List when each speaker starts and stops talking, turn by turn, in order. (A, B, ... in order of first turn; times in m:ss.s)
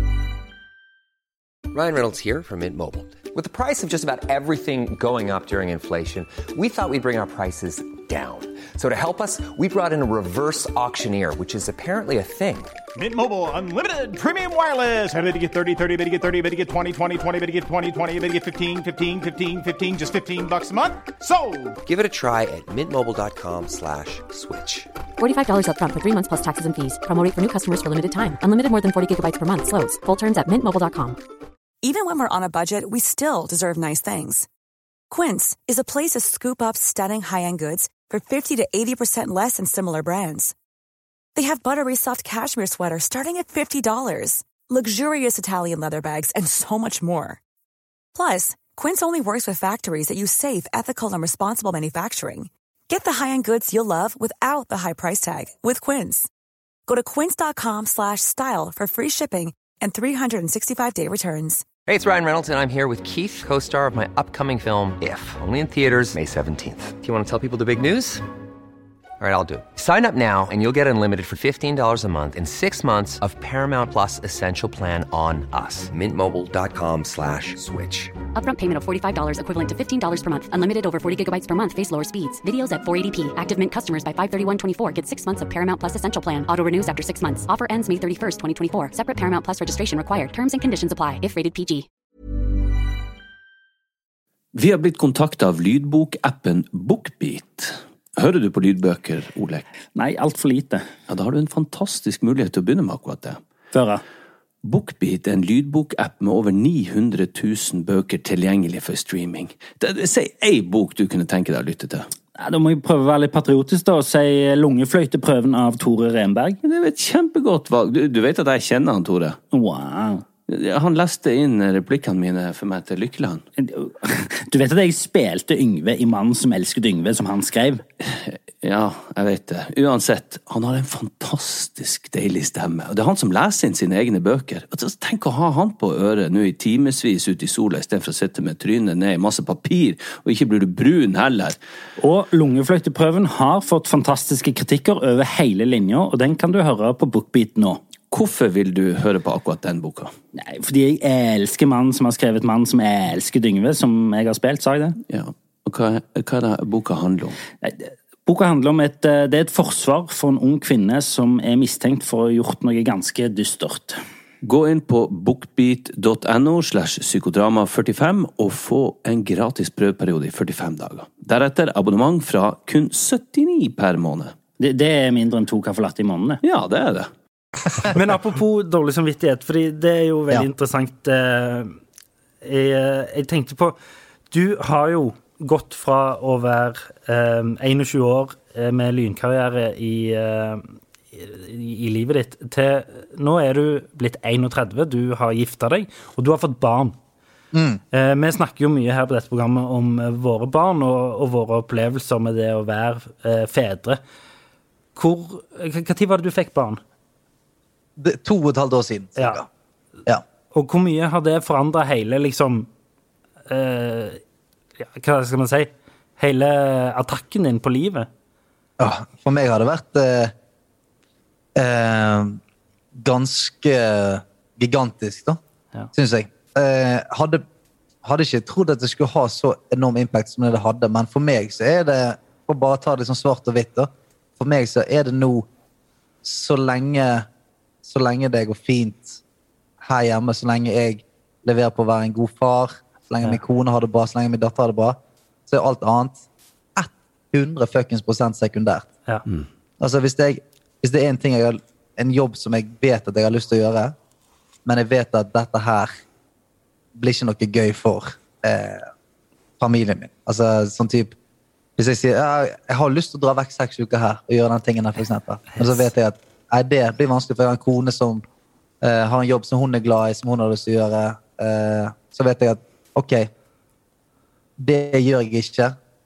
0:01.7-0:12.8 A
0:13.0-0:21.8 B
0:21.8-0:24.9 A
0:25.2-0:31.2 C
0:31.8-0:34.5 D
0:35.1-0:40.5 D
0:41.4-0:47.4 D
0:48.1-0:56.3 D
0:56.9-1:01.7 D
1:01.9-1:08.2 A
1:09.2-1:18.2 A
1:18.3-1:31.9 C
1:34.6-1:39.6 E
1:40.0-1:40.8 F
1:41.1-1:43.4 E
1:43.8-1:44.0 F
1:44.6-1:52.1 E
1:52.4-1:56.6 F
1:56.6-1:59.4 E
1:59.5-2:00.2 F
2:00.5-2:03.4 E
2:04.5-2:07.8 F
2:08.1-2:21.6 E
2:22.0-2:27.8 F
2:28.1-2:30.1 E
2:30.4-2:35.0 F
2:35.1-2:37.4 E
2:37.6-2:43.9 F
2:44.4-2:54.4 E
2:54.6-2:56.4 F
2:56.4-2:57.1 E
2:57.9-3:01.8 F
3:02.4-3:03.8 F
3:04.3-3:17.0 F
3:17.5-3:17.8 G
3:17.9-3:24.0 F
3:25.0-3:26.8 F
3:28.0-3:29.5 G
3:30.5-3:32.7 F
3:33.5-3:34.2 F
3:34.8-3:38.1 F
3:38.8-3:40.3 G
3:41.6-3:42.4 G
3:42.9-3:45.4 G
3:45.9-3:47.4 G
3:48.0-3:55.5 G
3:56.2-3:57.3 G
3:57.8-3:59.2 G
3:59.8-4:06.2 G
4:06.8-4:08.9 G
4:09.8-4:14.0 G
4:14.7-4:15.9 G
4:17.0-4:18.9 G
4:19.6-4:21.1 G
4:21.8-4:28.2 G
4:28.8-4:33.3 G
4:34.6-4:35.8 G